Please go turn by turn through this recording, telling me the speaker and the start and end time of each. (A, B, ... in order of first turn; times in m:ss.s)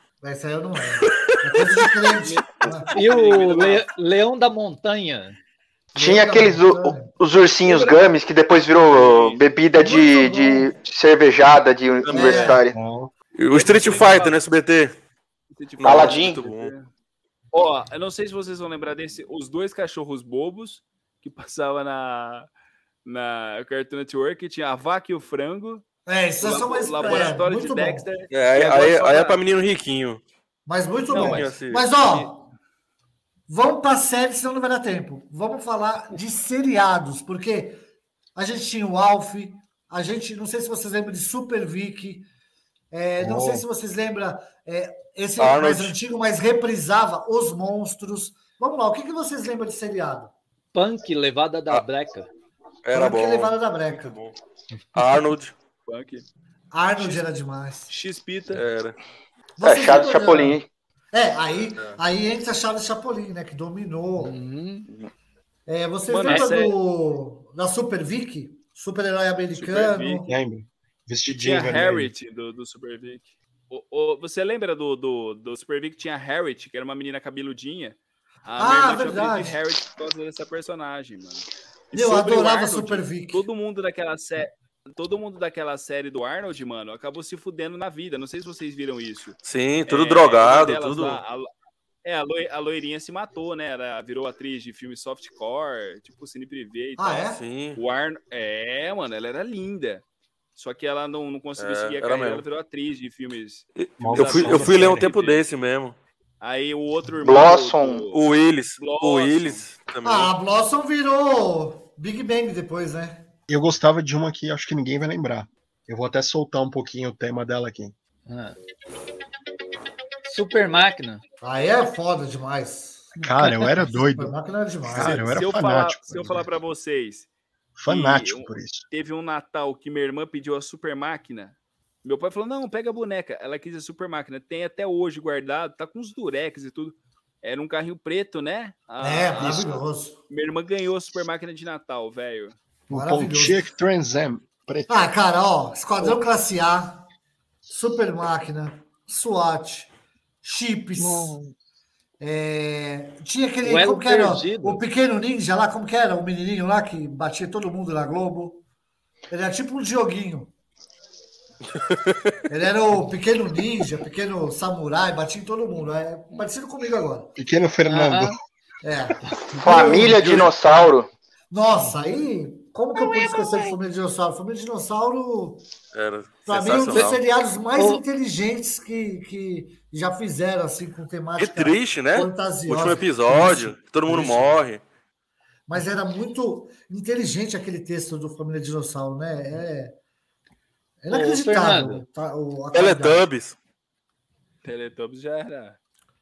0:00.2-0:02.9 A
0:01.6-0:02.8 B
0:02.9-0:05.4 C
0:03.0-0:03.9 D
0:06.0-0:07.1 A
0:06.0-0:12.8 E
0:07.7-0:08.0 D
0:08.8-0:09.4 D
0:09.8-0:10.7 A
0:12.0-0:12.6 B
0:12.1-0:12.6 A
0:12.7-0:13.1 F
0:13.4-0:14.9 B
0:13.5-0:14.4 D
0:15.5-0:16.9 D
0:15.8-0:16.7 B
0:15.8-0:16.4 E
0:17.5-0:22.5 D
0:23.1-0:25.8 D
0:26.1-0:28.1 A
0:26.4-0:29.4 D
0:28.3-0:30.2 B
0:30.7-0:32.4 A
0:31.1-0:32.3 D
0:31.1-0:31.9 B
0:33.5-0:37.8 A
0:38.4-0:42.3 A
0:42.9-0:50.3 A
0:43.2-0:43.6 F
0:45.4-0:46.0 B
0:50.7-0:52.3 C
0:52.8-0:54.3 B
0:52.9-0:54.2 A
0:55.0-0:55.5 B
0:55.9-0:56.3 D
0:56.7-0:57.9 A
0:57.0-0:57.2 D
0:57.9-0:58.6 D
0:58.5-0:59.0 B
0:59.6-1:00.6 A
0:59.6-1:00.7 E
1:01.1-1:04.4 A
1:04.2-1:04.9 C
1:05.7-1:10.3 A
1:06.1-1:06.8 D
1:09.6-1:10.2 D
1:10.2-1:12.1 F
1:11.3-1:31.5 D
1:18.6-1:19.6 A
1:21.9-1:23.4 A
1:29.4-1:31.2 B
1:32.0-1:40.0 D
1:37.0-1:37.4 A
1:37.4-1:37.8 B
1:40.6-1:45.5 D
1:41.6-1:42.4 B
1:43.8-1:46.0 B
1:44.0-1:45.1 F
1:46.4-1:48.2 D
1:47.2-1:48.0 E
1:48.1-1:50.3 B
1:48.8-1:49.7 D
1:50.0-1:53.3 A
1:53.5-1:58.0 F
1:58.3-1:58.6 C
2:00.2-2:01.2 C
2:01.4-2:05.2 A
2:03.2-2:03.9 C
2:03.2-2:06.5 F
2:05.0-2:07.3 D
2:07.8-2:08.9 F
2:07.9-2:22.6 D
2:19.0-2:20.2 A
2:19.4-2:19.7 F
2:22.9-2:25.0 F
2:22.9-2:23.6 A
2:24.9-2:27.0 A
2:27.7-2:29.9 A
2:30.4-2:31.4 A
2:31.0-2:31.6 F
2:32.2-2:38.6 A
2:33.6-2:34.8 C
2:39.3-2:40.5 A
2:41.9-2:42.3 B
2:42.5-2:47.3 A
2:47.4-2:48.4 F
2:47.8-2:48.4 C
2:48.8-2:50.4 A
2:49.3-2:49.6 C
2:49.6-2:51.1 E
2:50.2-2:50.5 B
2:51.5-2:55.6 A
2:55.9-2:57.2 B
2:56.5-3:04.6 A
2:57.8-2:58.0 C
3:01.4-3:04.8 B
3:05.7-3:10.0 A
3:11.0-3:13.3 A
3:11.1-3:12.0 C
3:12.7-3:13.6 B
3:14.6-3:15.8 D